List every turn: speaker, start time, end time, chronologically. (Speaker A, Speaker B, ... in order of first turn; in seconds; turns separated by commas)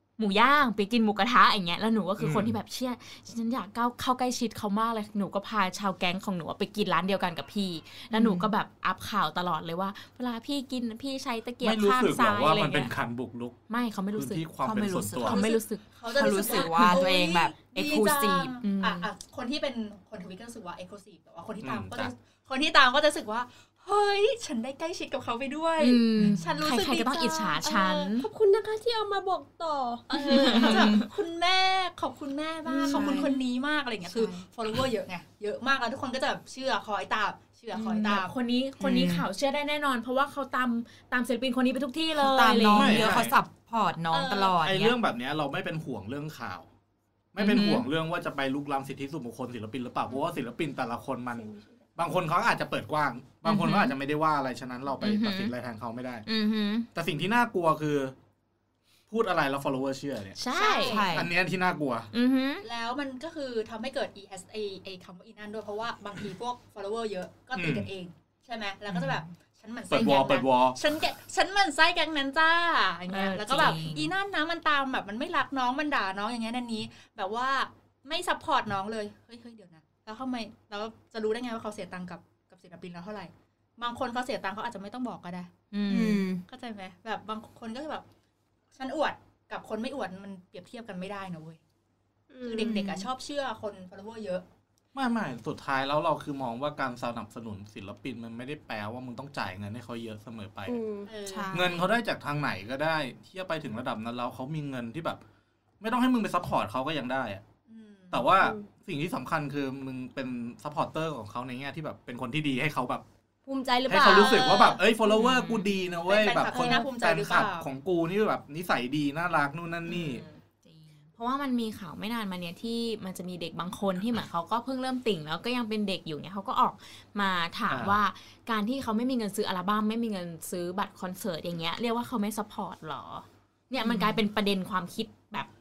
Speaker A: 0.2-12.9, Speaker B: 2.2-2.5, Speaker C: 8.1-8.5, Speaker B: 11.6-13.6, Speaker A: 13.7-17.1, Speaker B: 14.2-15.4, Speaker C: 14.6-18.6, Speaker D: 15.8-28.1, Speaker A: 18.6-19.1, Speaker B: 21.6-22.1, Speaker A: 25.8-28.3, Speaker C: 26.2-26.5, Speaker E: 28.1-30.1, Speaker D: 30.1-38.3, Speaker A: 30.1-31.1, Speaker C: 30.5-31.0, Speaker E: 32.7-33.3, Speaker C: 32.8-33.3, Speaker C: 37.8-38.1, Speaker A: 37.8-43.1, Speaker C: 38.8-39.3, Speaker C: 42.1-45.0, Speaker B: 42.7-43.4, Speaker D: 44.1-44.5, Speaker B: 44.6-46.7, Speaker B: 47.3-56.2, Speaker A: 47.4-47.9, Speaker E: 51.4-51.7, Speaker A: 53.5-53.9, Speaker A: 55.0-55.5, Speaker A: 56.2-56.9, Speaker B: 56.9-58.1, Speaker B: 59.1-60.4, Speaker A: 60.4-61.0, Speaker D: 60.5-61.2, Speaker C: 60.8-61.3, Speaker B: 61.1-62.1, Speaker A: 62.1-62.6, Speaker D: 62.6-85.5, Speaker B: 67.5-67.9, Speaker C: 68.9-69.3, Speaker B: 69.9-70.8, Speaker A: 73.1-73.8, Speaker C: 73.3-74.1, Speaker A: 85.7-86.2, Speaker C: 85.9-86.4, Speaker D: 86.5-88.0, Speaker D: 88.8-91.6, Speaker E: 92.3-92.8, Speaker D: 92.4-94.4, Speaker C: 92.6-93.1, Speaker B: 94.9-100.8, Speaker E: 100.7-101.1, Speaker D: 101.1-101.7, Speaker C: 101.3-101.8, Speaker B: 101.5-105.2, Speaker B: 105.8-107.4, Speaker D: 107.7-108.3, Speaker B: 108.1-113.0, Speaker E: 108.4-108.7, Speaker E: 113.5-114.5, Speaker B: 113.9-120.2, Speaker D: 114.1-114.8, Speaker A: 115.0-115.7, Speaker D: 116.0-117.7, Speaker E: 116.5-116.9, Speaker A: 119.9-120.4, Speaker C: 120.6-121.1, Speaker A: 121.2-135.5, Speaker B: 127.7-128.0, Speaker C: 133.8-134.2